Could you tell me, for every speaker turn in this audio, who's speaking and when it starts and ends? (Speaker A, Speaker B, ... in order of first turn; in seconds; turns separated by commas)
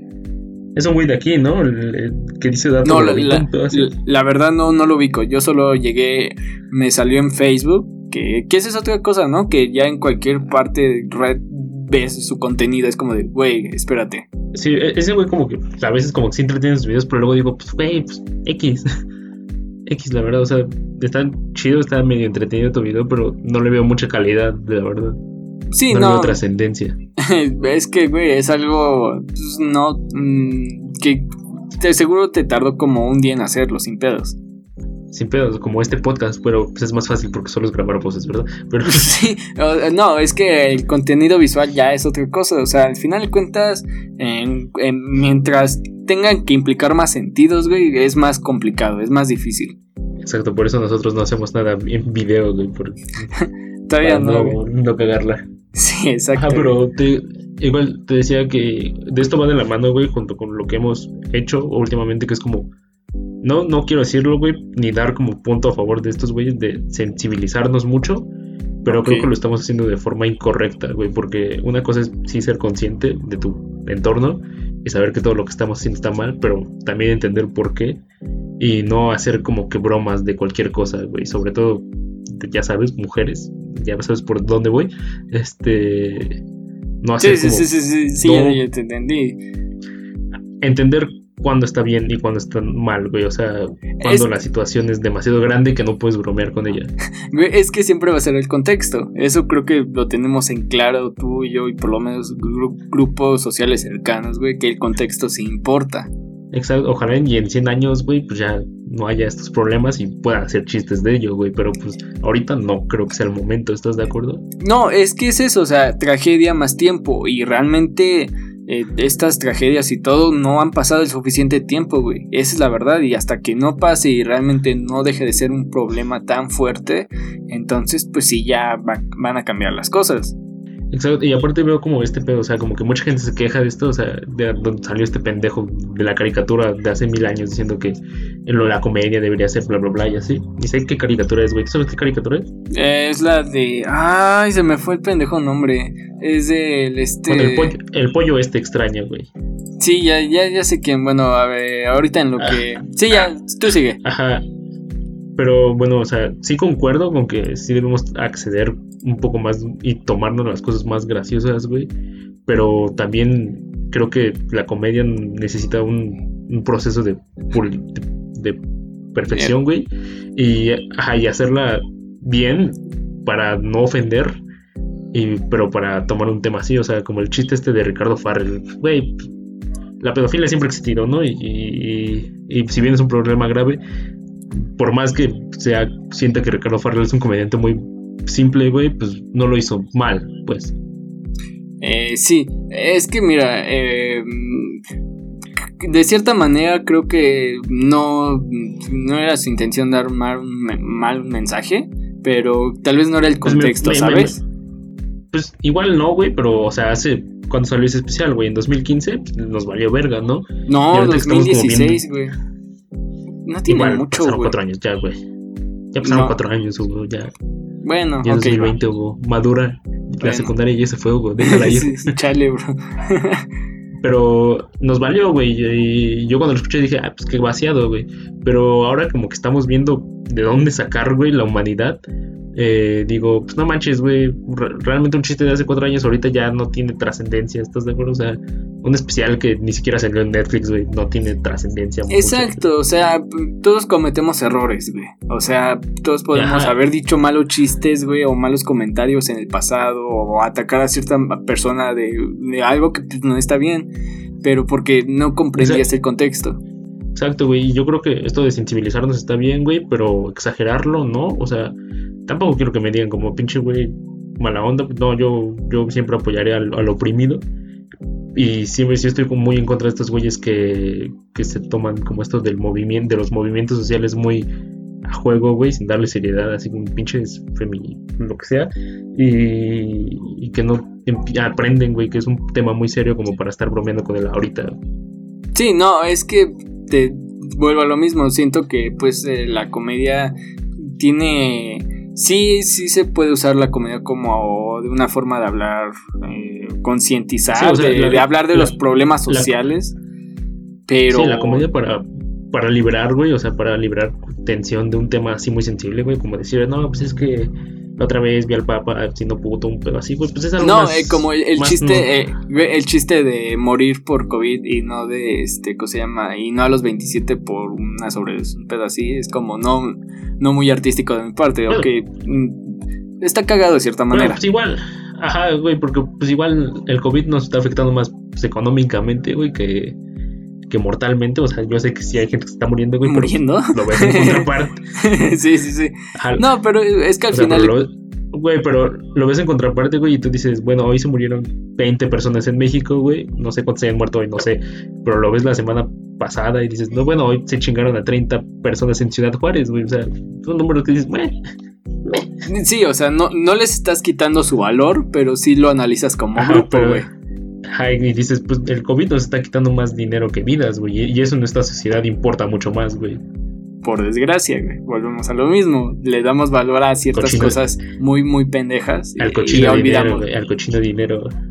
Speaker A: 0.8-3.9, Speaker B: 2.8-14.3, Speaker A: 14.5-18.9, Speaker A: 19.9-25.2, Speaker B: 25.7-26.4, Speaker A: 25.9-27.0, Speaker B: 27.2-34.4, Speaker A: 35.1-39.1, Speaker B: 38.9-49.8, Speaker A: 50.2-53.3, Speaker B: 53.4-54.6, Speaker A: 54.0-55.4, Speaker B: 55.8-56.8, Speaker A: 56.3-62.7, Speaker A: 63.4-68.3, Speaker B: 68.8-69.3, Speaker A: 68.8-78.0, Speaker A: 78.6-86.4, Speaker A: 87.0-87.7, Speaker B: 87.2-89.4, Speaker A: 88.2-88.6, Speaker A: 90.6-96.9, Speaker B: 94.0-94.3, Speaker B: 97.3-106.1, Speaker A: 106.5-114.4, Speaker B: 114.6-130.4, Speaker A: 130.9-142.5, Speaker B: 142.7-147.8, Speaker A: 147.3-149.3, Speaker B: 149.8-154.0, Speaker A: 152.4-152.6, Speaker A: 154.0-154.4, Speaker A: 155.4-161.9, Speaker A: 162.5-168.6, Speaker A: 169.1-174.4, Speaker A: 175.1-179.3, Speaker A: 180.0-183.8, Speaker A: 184.5-190.7, Speaker B: 191.8-194.8, Speaker B: 195.8-204.4, Speaker A: 203.4-204.4, Speaker A: 205.3-212.0, Speaker B: 210.7-212.4, Speaker B: 213.5-214.5, Speaker A: 213.7-215.2, Speaker A: 215.9-217.3, Speaker B: 216.0-216.3, Speaker B: 217.8-218.7, Speaker A: 218.2-222.1, Speaker B: 220.2-220.5, Speaker B: 221.4-223.4, Speaker A: 224.0-232.0, Speaker A: 232.6-242.7, Speaker B: 242.1-253.9, Speaker A: 246.3-246.8, Speaker B: 254.4-256.6, Speaker A: 255.6-255.9, Speaker A: 257.1-261.8, Speaker A: 262.3-267.4, Speaker A: 268.3-274.5, Speaker A: 275.1-284.8, Speaker B: 285.6-299.9, Speaker A: 297.5-298.8, Speaker A: 299.3-299.5, Speaker B: 300.9-301.7, Speaker A: 301.1-312.1, Speaker B: 310.6-324.4, Speaker A: 324.1-330.0, Speaker A: 330.7-334.8, Speaker B: 333.0-337.7, Speaker A: 336.1-336.5, Speaker A: 337.3-351.4, Speaker A: 352.1-352.4, Speaker B: 352.5-357.1, Speaker A: 356.4-357.1, Speaker A: 357.7-363.2, Speaker B: 363.8-370.2, Speaker A: 367.1-367.6, Speaker A: 369.2-371.3